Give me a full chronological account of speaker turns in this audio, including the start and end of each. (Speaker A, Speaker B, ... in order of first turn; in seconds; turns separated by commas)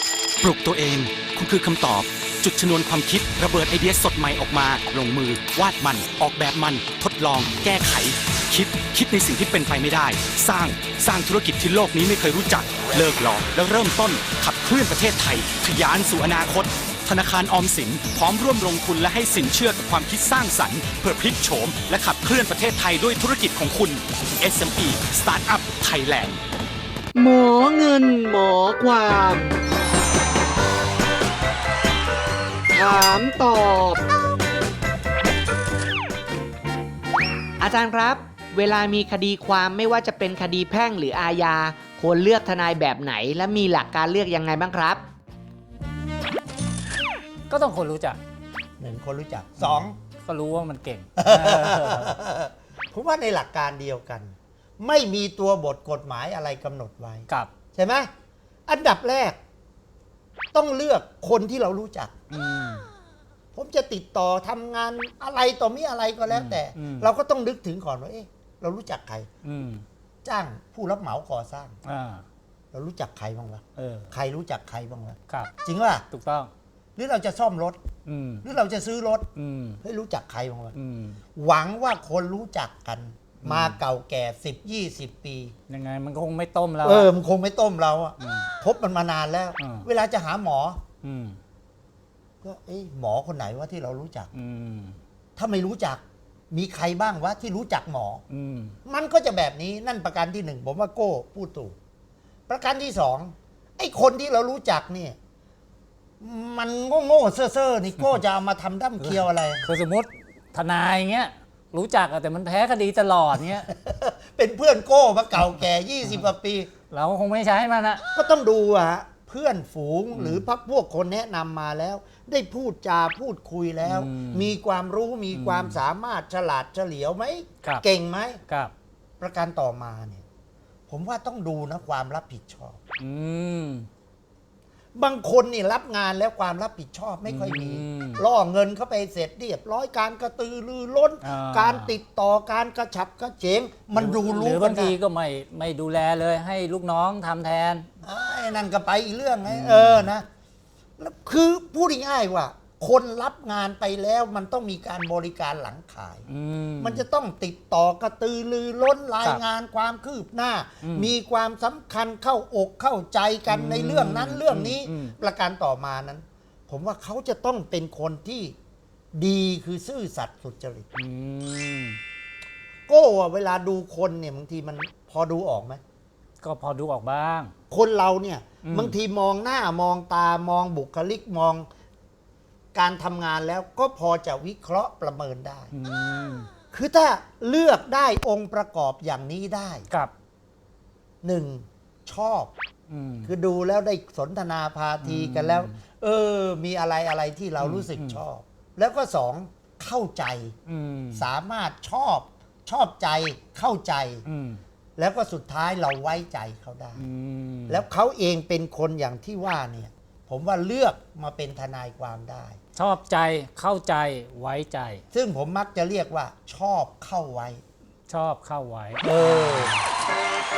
Speaker A: 0.4-26.4, Speaker B: 27.1-29.5, Speaker B: 32.7-34.0, Speaker C: 37.6-45.1, Speaker D: 47.5-48.2, Speaker E: 48.8-50.0, Speaker D: 49.6-52.2, Speaker E: 51.2-58.1, Speaker E: 58.7-59.4, Speaker E: 60.5-62.1, Speaker D: 62.3-62.9, Speaker E: 63.5-69.3, Speaker D: 66.3-67.1, Speaker D: 69.4-69.8, Speaker E: 70.2-71.8, Speaker D: 71.8-72.2, Speaker E: 72.7-76.0, Speaker D: 73.8-74.1, Speaker D: 76.1-76.5, Speaker E: 77.0-77.8, Speaker D: 78.0-78.5, Speaker E: 78.4-79.3, Speaker D: 79.3-79.8, Speaker E: 79.8-80.8, Speaker D: 80.7-81.2, Speaker E: 81.3-85.5, Speaker D: 83.4-83.8, Speaker D: 85.7-87.1, Speaker E: 86.8-90.8, Speaker D: 88.2-88.5, Speaker D: 89.6-89.9, Speaker D: 91.0-91.4, Speaker E: 92.4-94.3, Speaker D: 94.3-95.0, Speaker E: 95.4-98.2, Speaker D: 98.3-98.8, Speaker E: 98.8-101.8, Speaker E: 102.5-105.2, Speaker E: 106.2-109.7, Speaker D: 109.0-113.7, Speaker E: 113.7-116.7, Speaker D: 116.9-118.0, Speaker E: 118.1-128.4, Speaker D: 120.1-120.4, Speaker D: 123.8-124.5, Speaker D: 125.3-125.8, Speaker D: 128.5-128.7, Speaker E: 129.2-130.2, Speaker E: 130.9-132.8, Speaker D: 133.0-133.9, Speaker E: 134.9-145.0, Speaker D: 137.3-138.2, Speaker D: 141.2-141.9, Speaker D: 143.9-147.9, Speaker E: 148.0-150.3, Speaker D: 149.5-150.1, Speaker E: 151.0-156.3, Speaker D: 156.3-157.0, Speaker E: 156.8-168.6, Speaker D: 160.8-161.1, Speaker D: 163.5-165.2, Speaker E: 169.2-170.9, Speaker D: 170.9-172.0, Speaker E: 172.9-175.8, Speaker D: 176.4-177.5, Speaker E: 177.7-181.7, Speaker D: 178.6-179.0, Speaker E: 182.7-185.7, Speaker D: 185.7-186.5, Speaker E: 186.7-189.9, Speaker E: 191.2-192.5, Speaker D: 192.9-193.3, Speaker E: 193.2-200.6, Speaker D: 195.0-195.8, Speaker D: 197.6-198.2, Speaker D: 200.7-201.3, Speaker E: 201.2-204.2, Speaker D: 204.2-204.6, Speaker E: 205.0-207.1, Speaker D: 207.0-207.8, Speaker E: 207.7-212.6, Speaker D: 212.8-215.0, Speaker E: 215.1-217.6, Speaker D: 218.1-219.1, Speaker E: 219.0-219.8